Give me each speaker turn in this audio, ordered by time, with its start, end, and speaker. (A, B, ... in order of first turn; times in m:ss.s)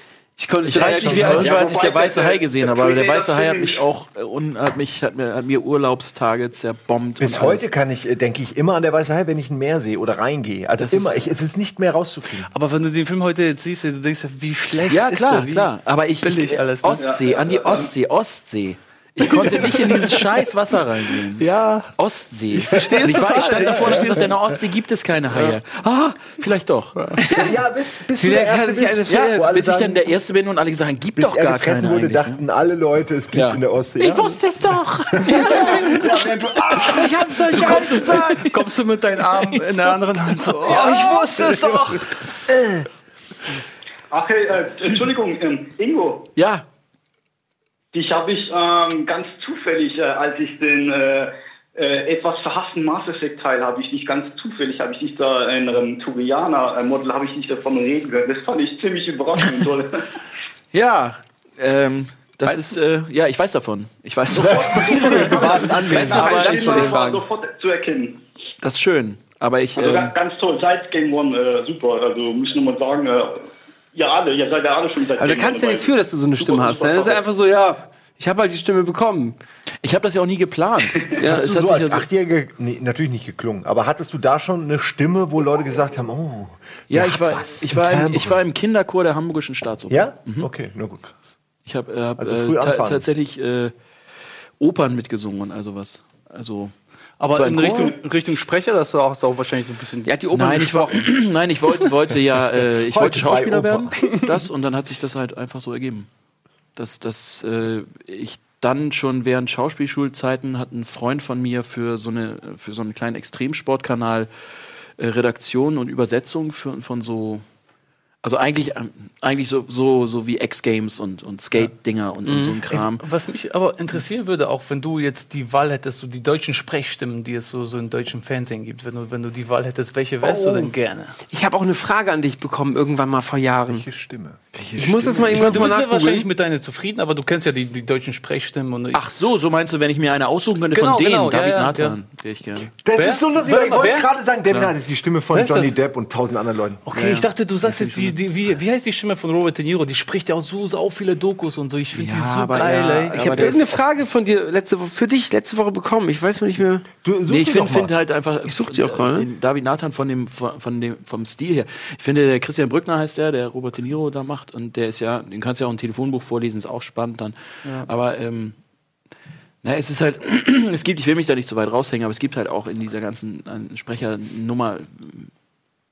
0:00.4-0:01.6 A
0:00.6-0:07.7 B
0:00.8-0:03.8 C
0:00.8-0:01.7 D
0:07.2-0:12.5 D
0:10.8-0:11.3 B
0:12.4-0:15.7 E
0:14.9-0:27.0 B
0:16.2-0:17.1 E
0:17.0-0:17.9 C
0:19.2-0:21.9 E
0:22.5-0:24.4 E
0:23.1-0:24.1 A
0:27.0-0:27.3 E
0:27.2-0:27.5 A
0:27.3-0:30.1 D
0:28.2-0:29.5 A
0:29.1-0:32.4 B
0:31.2-0:34.5 D
0:33.3-0:33.6 B
0:34.0-0:36.1 A
0:34.3-0:36.0 B
0:35.1-0:38.0 D
0:36.8-0:38.1 A
0:36.8-0:38.7 B
0:37.5-0:42.2 E
0:39.5-0:40.0 B
0:40.5-0:41.4 B
0:40.6-0:42.1 A
0:42.5-0:42.9 B
0:44.1-0:46.3 C
0:46.4-0:46.7 B
0:47.9-1:00.0 C
1:00.7-1:06.9 B
1:02.5-1:02.7 A
1:04.4-1:06.4 D
1:04.5-1:08.2 C
1:05.9-1:07.2 A
1:08.6-1:10.2 B
1:09.8-1:17.2 C
1:15.2-1:19.4 A
1:19.8-1:22.0 B
1:21.2-1:21.4 A
1:21.2-1:28.4 D
1:26.9-1:30.5 B
1:29.9-1:31.1 D
1:31.6-1:33.7 B
1:32.2-1:33.0 D
1:34.6-1:36.7 B
1:37.2-1:40.1 E
1:37.3-1:38.0 B
1:40.0-1:41.1 A
1:40.3-1:46.1 B
1:42.8-1:44.2 D
1:46.8-1:54.3 B
1:55.0-1:57.4 B
1:58.2-2:03.0 B
2:02.3-2:02.6 A
2:02.7-2:11.2 E
2:10.2-2:10.7 D
2:11.3-2:13.8 A
2:13.7-2:14.4 D
2:14.5-2:15.8 B
2:14.8-2:16.3 A
2:15.1-2:19.0 E
2:18.9-2:22.7 B
2:20.7-2:22.0 E
2:22.8-2:26.8 D
2:23.0-2:24.1 E
2:25.3-2:25.8 E
2:26.8-2:33.7 E
2:26.9-2:28.2 B
2:31.9-2:33.6 B
2:33.2-2:36.9 A
2:37.0-2:37.9 D
2:37.3-2:48.6 B
2:38.5-2:39.3 A
2:47.6-2:47.9 E
2:49.6-2:55.3 B